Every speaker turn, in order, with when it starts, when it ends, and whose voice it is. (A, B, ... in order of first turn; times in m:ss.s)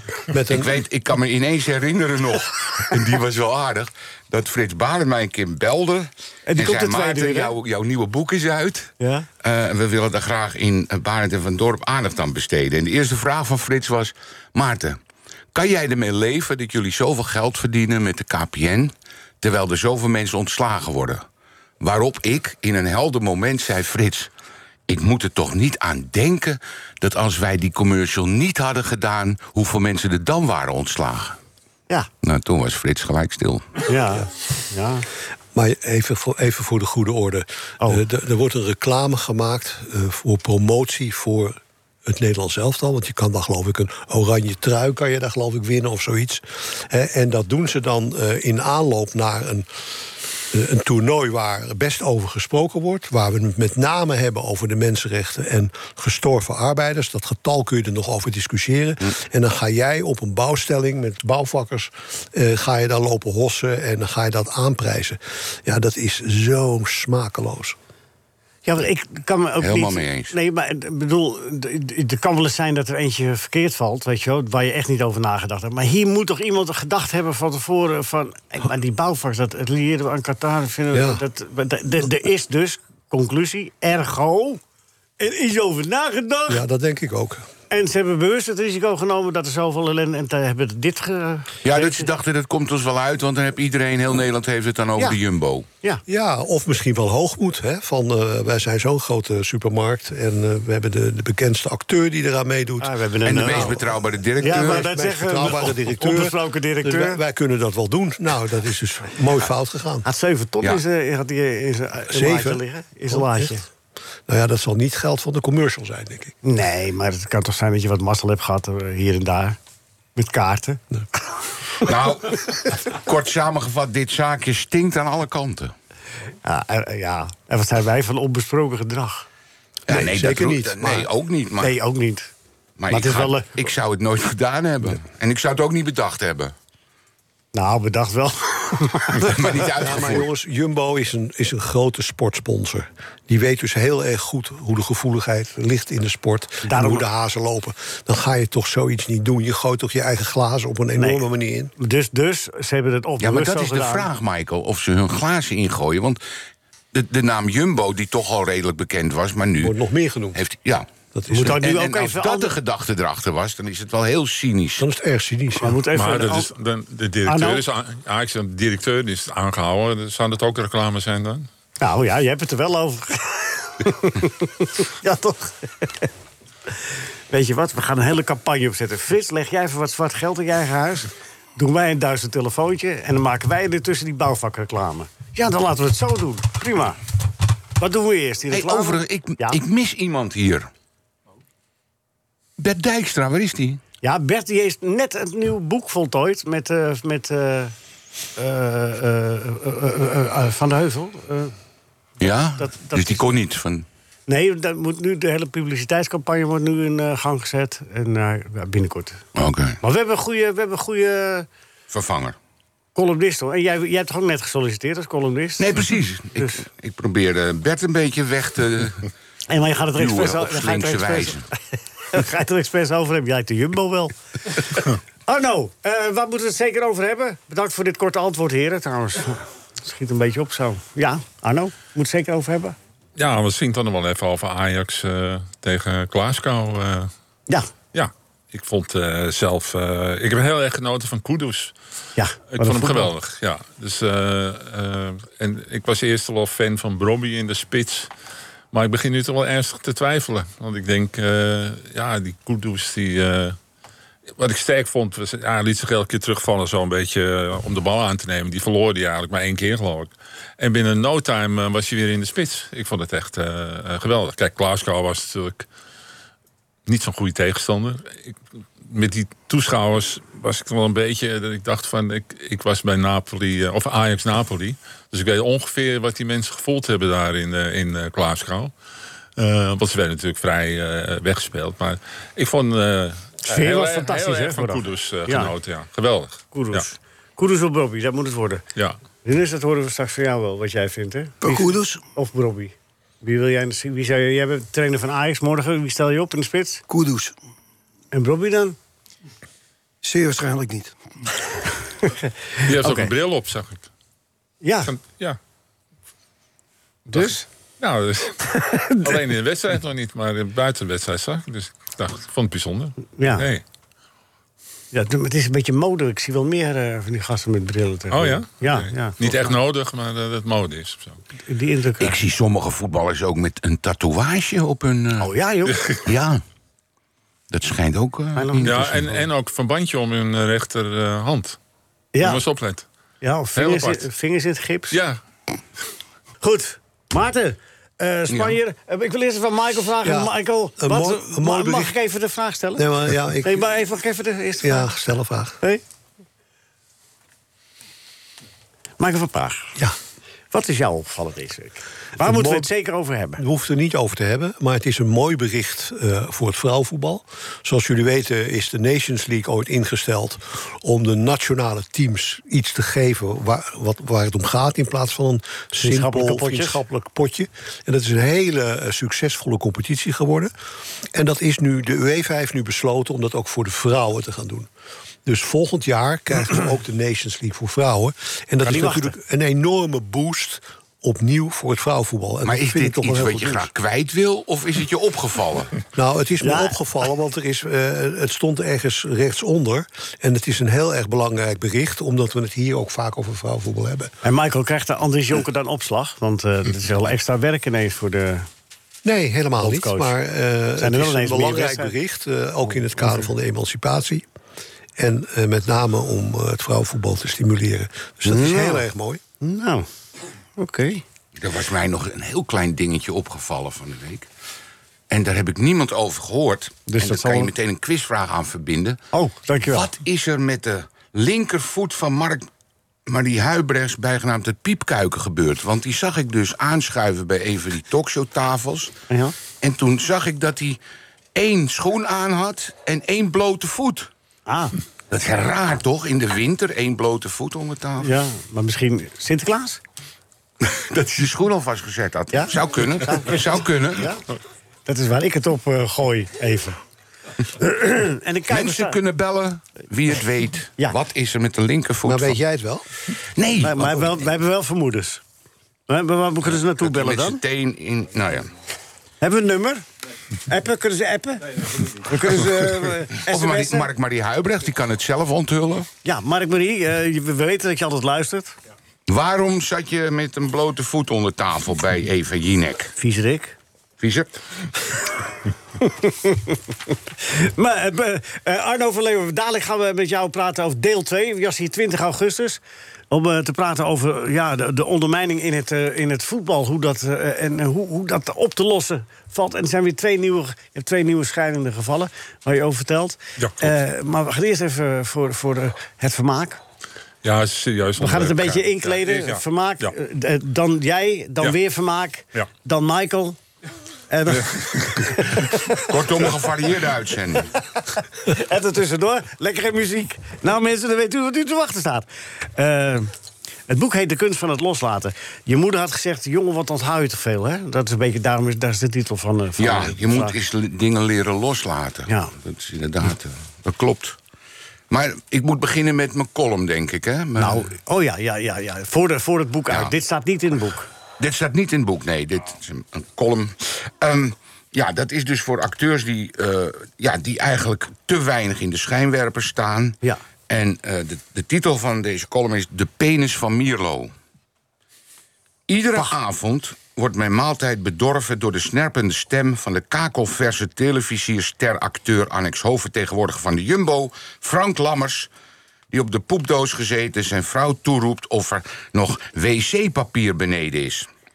0:00.3-0:00.8 A
0:00.5-0:15.0 B
0:06.5-0:07.5 C
0:09.0-0:09.3 C
0:15.5-0:21.2 B
0:21.8-0:24.3 B
0:24.9-0:31.4 B
0:32.2-0:33.7 B
0:33.9-0:35.1 C
0:35.6-0:49.7 A
0:50.5-1:07.8 A
1:08.6-1:24.6 C
1:09.6-1:10.3 B
1:20.9-1:21.2 A
1:25.2-1:26.6 C
1:26.5-1:27.5 A
1:27.7-1:32.1 C
1:31.6-1:35.7 B
1:36.1-1:43.8 A
1:42.8-1:43.8 C
1:43.2-1:44.9 B
1:44.4-1:47.2 C
1:44.4-1:50.0 A
1:50.0-1:53.6 C
1:52.1-1:53.5 A
1:54.3-1:56.4 A
1:56.4-1:59.6 C
2:00.2-2:00.8 C
2:01.8-2:05.7 B
2:06.4-2:09.3 C
2:09.9-2:11.8 B
2:09.9-2:11.1 A
2:11.6-2:12.3 C
2:12.8-2:16.5 B
2:12.9-2:13.5 C
2:17.6-2:19.4 C
2:19.2-2:20.3 B
2:19.6-2:31.7 A
2:26.7-2:27.0 C
2:31.0-2:31.3 C
2:31.8-2:34.1 C
2:33.2-2:36.2 B
2:36.9-2:39.8 B
2:39.6-2:40.4 A
2:40.4-2:40.9 B
2:41.1-2:41.6 A
2:41.3-2:42.5 C
2:41.4-2:44.8 B
2:44.8-2:45.8 A
2:45.6-2:46.5 C
2:45.9-2:51.5 D
2:47.3-2:47.6 C
2:51.8-2:56.1 C
2:57.3-3:07.0 C
3:07.8-3:09.6 C
3:08.5-3:10.7 B
3:12.6-3:13.8 B
3:14.0-3:17.7 C
3:18.4-3:21.5 C
3:22.2-3:23.9 B
3:22.6-3:23.3 C
3:24.3-3:29.2 C
3:29.4-3:29.8 B
3:29.8-3:31.5 C
3:31.9-3:32.4 B
3:33.0-3:35.7 C
3:35.6-3:39.1 B
3:39.5-3:41.6 C
3:40.0-3:41.5 B
3:42.1-3:52.8 C
3:53.2-3:57.1 D
3:57.9-4:01.8 D
4:02.2-4:03.1 C
4:02.5-4:08.1 D
4:08.7-4:13.6 D
4:14.4-4:25.7 D
4:26.9-4:38.7 D
4:39.4-4:46.9 D
4:43.4-4:45.5 C
4:46.5-4:48.6 C
4:49.2-4:56.8 C
4:51.4-4:52.0 E
4:56.9-4:57.3 E
4:58.1-4:58.8 C
5:00.0-5:01.1 E
5:02.0-5:03.1 C
5:02.6-5:03.9 D
5:04.6-5:04.9 C
5:04.9-5:05.4 D
5:07.1-5:13.6 D
5:07.1-5:07.4 C
5:13.1-5:13.5 C
5:14.9-5:19.5 C
5:18.1-5:21.2 D
5:21.5-5:22.2 C
5:22.0-5:25.3 B
5:25.2-5:25.8 C
5:26.0-5:26.4 B
5:27.5-5:29.3 B
5:28.4-5:28.8 C
5:28.6-5:31.6 D
5:32.1-5:32.4 C
5:32.2-5:32.9 D
5:33.2-5:35.0 C
5:33.6-5:34.0 D
5:34.9-5:35.2 D
5:36.4-5:42.9 C
5:38.3-5:38.6 B
5:40.0-5:42.0 A
5:42.8-5:43.6 A
5:43.4-5:45.0 C
5:44.6-5:45.6 A
5:49.0-5:49.8 C
5:50.5-5:53.4 C
5:52.2-5:52.7 A
5:53.4-6:10.5 A
6:05.8-6:06.8 C
6:11.1-6:14.7 A
6:15.3-6:23.7 A
6:18.6-6:19.2 C
6:22.4-6:25.7 B
6:25.9-6:34.1 A
6:26.4-6:26.8 C
6:34.2-6:38.5 C
6:39.0-6:44.3 A
6:39.6-6:40.2 C
6:40.8-6:41.9 C
6:42.7-6:43.3 C
6:45.0-6:49.2 A
6:48.3-6:48.9 C
6:49.4-6:49.9 C
6:50.6-6:51.0 C
6:51.4-6:54.3 B
6:55.1-6:59.0 B
6:56.9-6:57.5 C
6:59.1-6:59.9 C
6:59.6-7:02.5 B
7:03.1-7:08.9 B
7:09.1-7:09.4 C
7:09.6-7:10.8 B
7:11.4-7:14.1 B
7:14.5-7:14.8 C
7:15.1-7:18.1 B
7:18.0-7:19.8 C
7:20.6-7:24.1 B
7:22.3-7:24.2 C
7:24.9-7:26.8 C
7:27.6-7:29.0 C
7:28.5-7:32.4 B
7:32.0-7:32.9 A
7:33.4-7:34.2 B
7:33.6-7:35.2 C
7:35.9-7:37.4 C
7:36.8-7:38.5 B
7:39.2-7:39.8 C
7:40.5-7:43.9 C
7:43.3-7:45.9 B
7:46.0-7:48.5 C
7:49.1-7:52.9 B
7:53.0-7:53.6 C
7:54.0-7:54.3 B
7:55.8-7:56.6 C
7:57.2-8:02.6 C
8:03.1-8:16.6 C
8:13.4-8:13.8 D
8:17.2-8:19.9 D
8:18.0-8:23.4 C
8:24.1-8:25.9 C
8:24.3-8:25.3 D
8:25.8-8:27.5 B
8:27.6-8:33.1 C
8:33.7-8:40.4 C
8:39.6-8:44.2 B
8:44.9-8:47.7 B
8:47.4-8:50.9 C
8:51.2-9:00.0 B
9:00.5-9:04.1 B
9:05.7-9:15.3 B
9:15.9-9:21.1 B